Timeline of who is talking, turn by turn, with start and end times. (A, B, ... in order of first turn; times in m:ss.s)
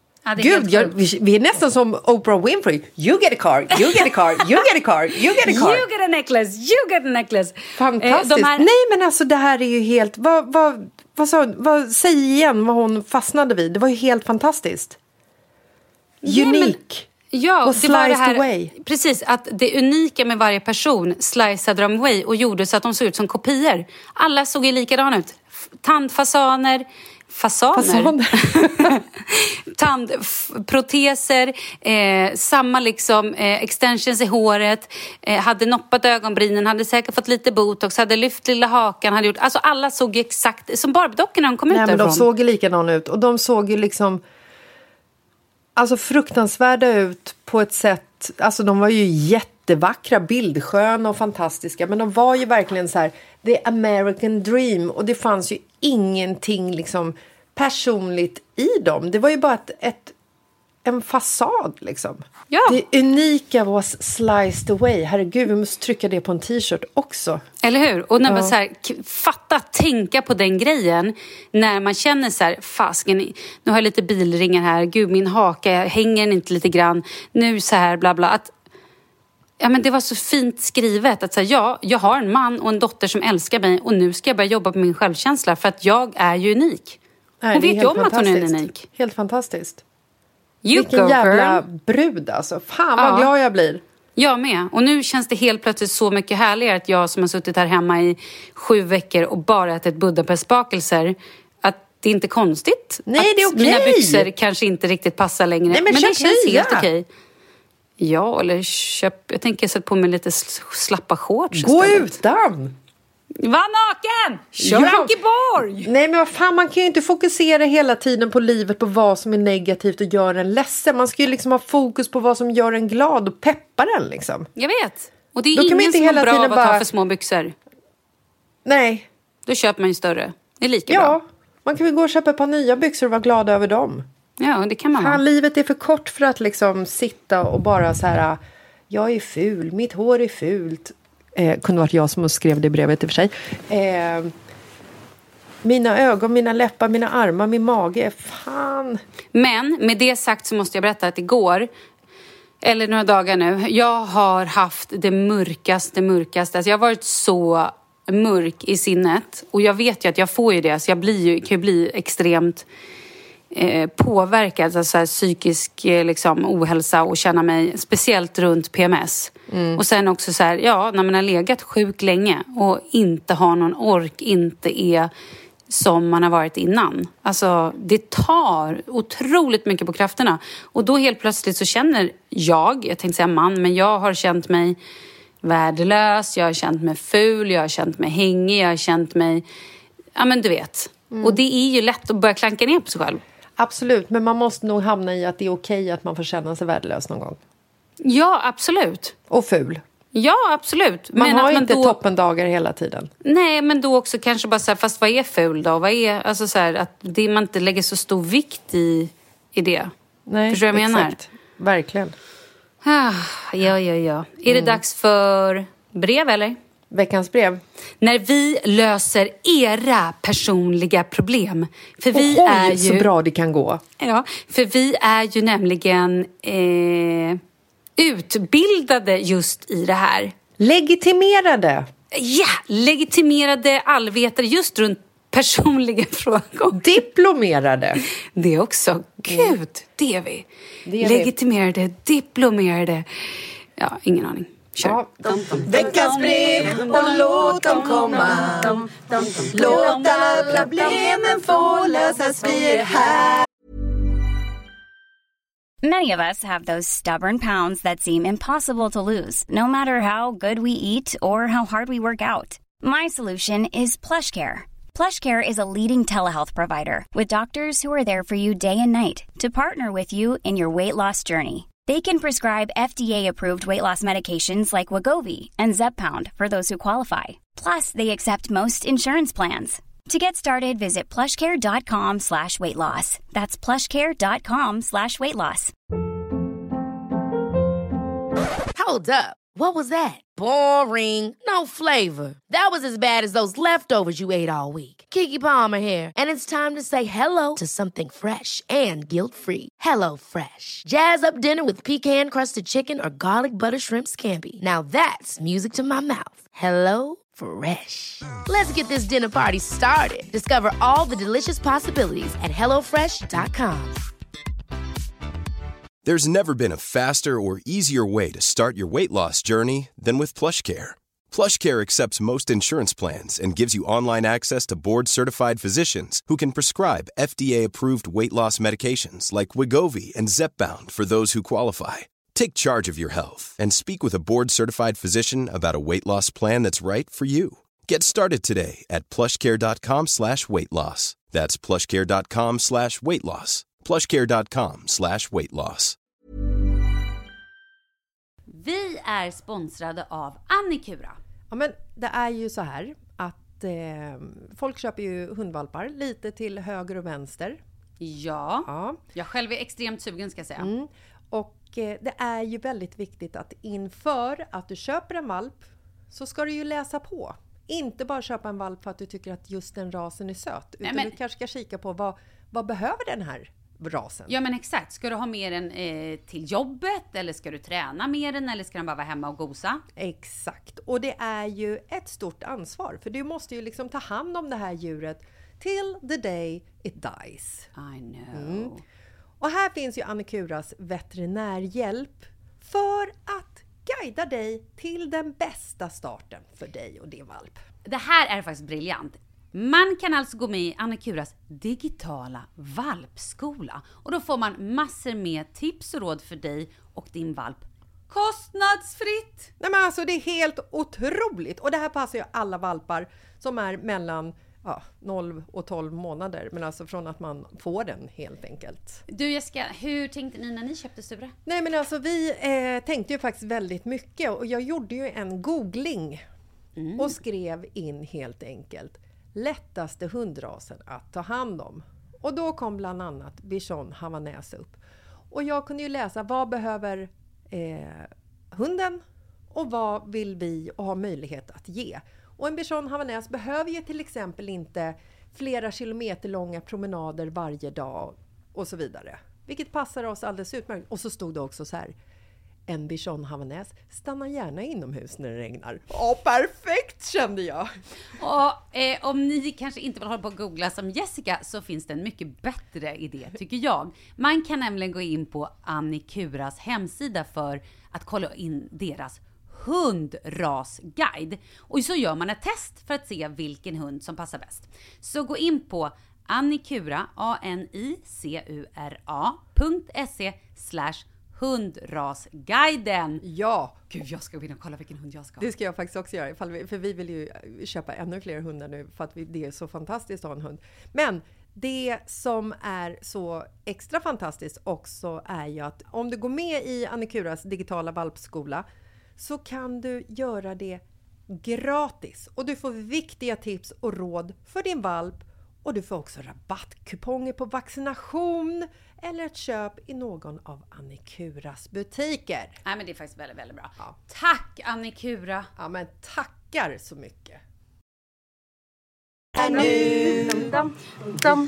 0:00.2-0:00.9 A
0:00.4-0:05.8 B
0:05.4-0:08.7 A
0:07.7-0:15.0 B
0:16.2-0:16.8 A
0:16.2-0:17.1 B
0:17.3-0:42.3 A
0:17.6-0:18.7 B
0:27.7-0:28.9 B
0:41.7-0:44.2 B
0:45.8-1:00.1 B
1:00.8-1:07.4 B
1:02.5-1:02.8 A
1:07.6-1:18.5 A
1:08.2-1:08.5 B
1:19.6-1:27.0 A
1:27.4-1:29.8 B
1:27.5-1:28.8 A
1:30.6-1:31.6 A
1:30.7-1:33.8 B
1:33.0-1:33.3 A
1:34.2-1:47.0 A
1:43.1-1:44.3 B
1:45.7-1:46.9 B
1:48.0-1:52.1 A
1:51.5-1:52.7 B
1:53.4-1:55.9 A
1:54.6-1:55.1 B
1:55.8-2:04.5 B
2:04.6-2:07.5 A
2:05.5-2:06.8 B
2:08.6-2:09.1 B
2:09.5-2:11.2 A
2:10.9-2:14.0 B
2:14.4-2:15.2 A
2:15.0-2:18.4 B
2:18.9-2:24.3 B
2:25.6-2:29.0 B
2:29.3-2:31.7 A
2:32.6-2:42.6 A
2:43.5-2:55.1 A
2:49.5-2:49.8 B
2:55.7-3:04.8 A
3:05.4-3:09.4 A
3:10.2-3:13.2 A
3:11.1-3:11.4 B
3:13.6-3:17.4 B
3:18.0-3:19.1 A
3:19.3-3:19.8 B
3:20.1-3:22.0 A
3:21.1-3:23.1 B
3:23.2-3:29.9 A
3:30.3-3:32.1 B
3:30.5-3:31.2 A
3:32.8-3:36.6 A
3:34.5-3:34.8 B
3:36.9-3:37.6 B
3:38.0-3:43.1 A
3:42.1-3:43.8 B
3:44.0-3:47.4 A
3:48.0-3:50.3 A
3:50.6-3:51.9 B
3:52.1-3:56.9 A
3:56.7-3:58.0 B
3:58.4-4:00.4 A
3:59.3-3:59.5 B
4:00.8-4:01.3 B
4:01.0-4:03.0 A
4:03.8-4:06.2 A
4:04.8-4:05.1 B
4:05.6-4:13.4 C
4:15.8-4:45.7 D
4:48.7-5:14.0 E
5:16.0-5:46.0 F
5:48.5-5:51.2 A
5:51.5-5:57.6 B
5:58.0-6:00.7 A
5:58.7-5:59.0 B
6:00.6-6:14.3 B
6:10.8-6:11.1 A
6:14.3-6:19.8 A
6:20.0-6:27.7 B
6:27.7-6:28.8 A
6:28.3-6:28.8 B
6:29.4-6:37.6 B
6:37.8-6:49.5 A
6:49.6-6:59.0 B
6:59.1-7:01.3 A
7:01.4-7:06.2 B
7:06.8-7:07.1 A
7:07.0-7:14.8 B
7:15.3-7:19.0 B
7:19.5-7:31.9 B
7:32.7-7:37.7 B
7:38.2-8:03.2 A
8:03.2-8:03.8 B
8:03.9-8:05.5 A
8:05.4-8:18.6 B
8:19.2-8:32.6 B
8:32.6-8:35.5 A
8:35.6-8:37.4 B
8:39.4-8:40.5 C